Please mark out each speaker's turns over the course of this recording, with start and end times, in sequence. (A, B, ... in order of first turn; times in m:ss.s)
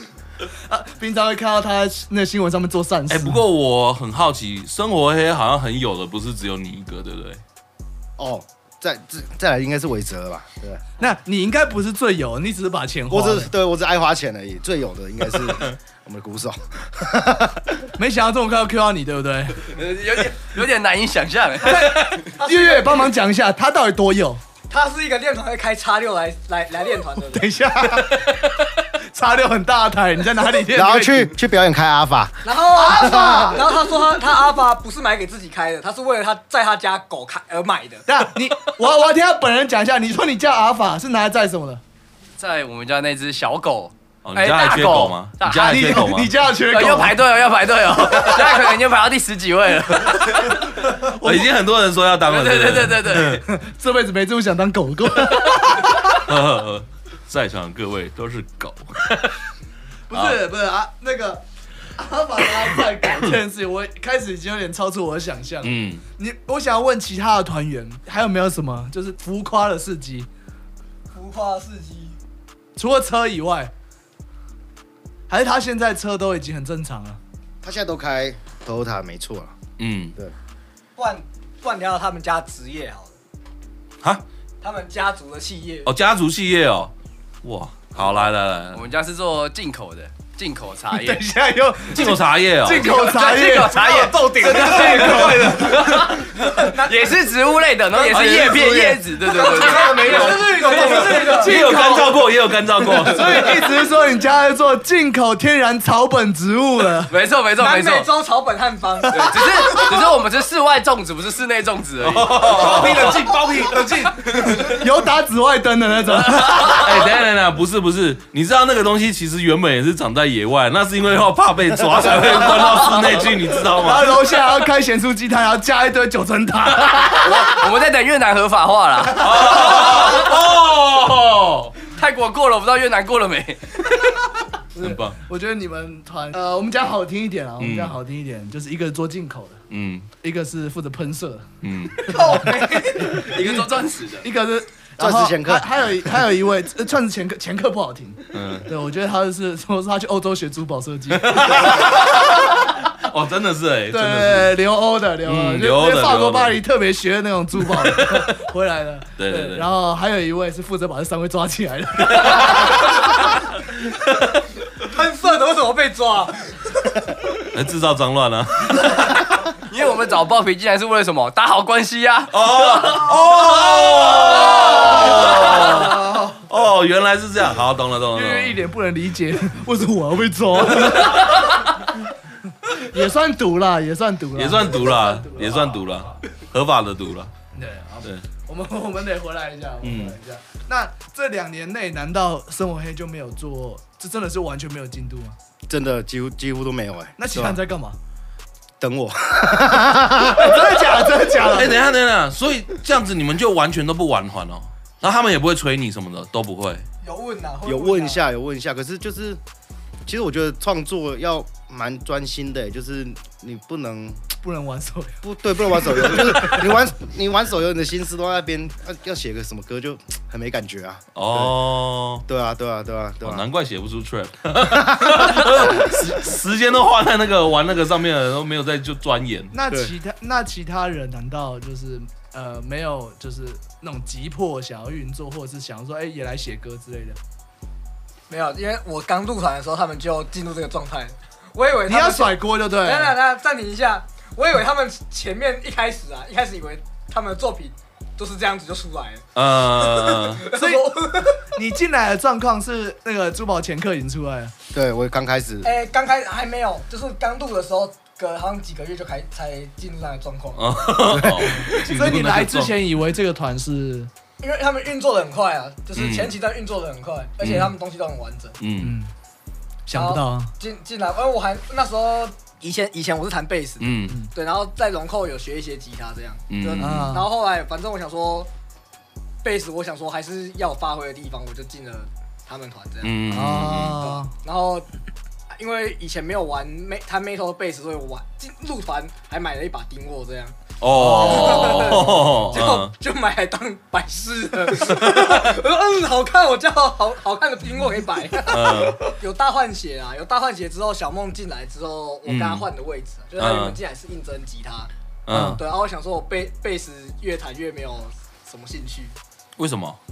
0:00.7-0:03.4 A
0:03.1-0:07.4 B
0:08.2-0:10.8 C
0:11.0-0:13.5 A
0:13.1-0:17.9 C
0:18.0-0:19.7 A
0:19.7-0:22.2 D
0:21.6-0:24.4 A
0:22.3-0:23.1 E
0:24.7-0:27.4 E
0:27.3-0:31.3 A
0:30.7-0:33.6 C
0:32.4-0:38.0 E
0:32.8-0:33.6 A
0:38.1-0:41.8 A
0:42.4-0:46.1 D
0:44.2-0:46.3 B
0:45.5-0:48.8 A
0:46.6-0:50.6 D
0:51.0-0:51.5 A
0:51.1-0:53.4 B
0:52.2-0:53.4 D
0:53.4-0:56.2 A
0:56.1-0:59.4 B
1:00.1-1:01.4 A
1:00.1-1:00.4 B
1:01.9-1:10.3 A
1:05.6-1:06.0 B
1:11.1-1:12.2 E
1:12.8-1:13.7 A
1:15.3-1:17.2 A
1:17.6-1:19.6 C
1:19.8-1:20.1 B
1:21.0-1:23.2 E
1:24.6-1:25.9 E
1:25.8-1:28.8 B
1:28.7-1:31.2 D
1:30.9-1:35.6 A
1:31.9-1:32.9 B
1:32.7-1:40.4 D
1:33.7-1:36.1 F
1:35.0-1:35.7 B
1:36.4-1:37.3 E
1:37.9-1:41.8 F
1:38.1-1:39.1 A
1:39.3-1:41.6 E
1:40.7-1:42.2 A
1:41.2-1:43.7 B
1:41.7-1:42.0 D
1:43.0-1:47.2 A
1:47.1-1:48.1 D
1:47.6-1:49.8 E
1:49.1-1:53.1 D
1:52.0-1:53.3 B
1:52.5-1:54.8 F
1:54.6-1:57.1 A
1:56.7-2:04.2 B
2:03.5-2:07.5 A
2:07.0-2:10.5 D
2:09.1-2:11.7 B
2:11.8-2:14.1 D
2:14.7-2:19.6 A
2:14.8-2:15.2 B
2:17.6-2:18.0 B
2:19.7-2:20.1 B
2:20.2-2:21.5 A
2:21.6-2:22.2 B
2:22.0-2:32.5 A
2:22.0-2:23.3 E
2:23.1-2:24.3 D
2:25.0-2:26.3 C
2:28.3-2:28.7 B
2:31.2-2:32.3 B
2:33.0-2:34.6 B
2:33.9-2:43.0 A
2:35.2-2:36.6 B
2:37.7-2:38.2 B
2:39.2-2:39.7 B
2:42.1-2:42.8 B
2:44.8-2:46.5 E
2:47.4-2:49.3 B
2:49.6-2:53.0 D
2:52.3-2:58.6 B
2:54.3-2:55.0 D
2:54.7-2:56.4 A
2:58.1-3:01.8 A
3:02.7-3:05.9 A
3:04.4-3:07.3 B
3:07.5-3:15.4 A
3:09.8-3:10.2 B
3:15.7-3:17.6 C
3:17.2-3:18.0 A
3:18.8-3:21.0 C
3:20.2-3:21.9 A
3:21.4-3:26.8 B
3:27.0-3:28.2 E
3:27.6-3:29.4 C
3:30.0-3:34.2 C
3:34.4-3:35.2 A
3:35.2-3:41.5 C
3:35.8-3:36.2 A
3:41.2-3:42.2 B
3:42.2-3:43.4 C
3:43.2-3:49.5 B
3:44.6-3:45.5 C
3:49.5-3:57.2 A
3:49.7-3:49.9 C
3:58.3-4:11.5 E
4:01.9-4:03.2 A
4:09.3-4:10.4 B
4:10.5-4:14.5 A
4:14.7-4:15.7 C
4:15.6-4:21.0 E
4:20.6-4:22.8 B
4:21.1-4:21.5 C
4:21.5-4:24.1 A
4:24.4-4:28.6 E
4:25.9-4:26.3 B
4:27.4-4:27.7 B
4:28.6-4:29.0 B
4:28.8-4:29.1 A
4:29.9-4:30.5 A
4:29.9-4:38.5 E
4:33.8-4:34.2 B
4:36.5-4:37.2 B
4:36.8-4:37.3 A
4:39.4-4:43.2 E
4:43.0-4:44.0 B
4:43.3-4:44.3 A
4:44.0-4:44.9 E
4:45.5-4:50.5 E
4:50.8-4:52.9 B
4:50.9-4:52.6 A
4:51.1-5:09.2 E
4:55.0-4:55.4 B
4:58.5-4:59.0 B
5:02.2-5:02.6 B
5:03.4-5:03.8 B
5:05.3-5:05.6 B
5:05.3-5:05.6 A
5:09.6-5:10.0 B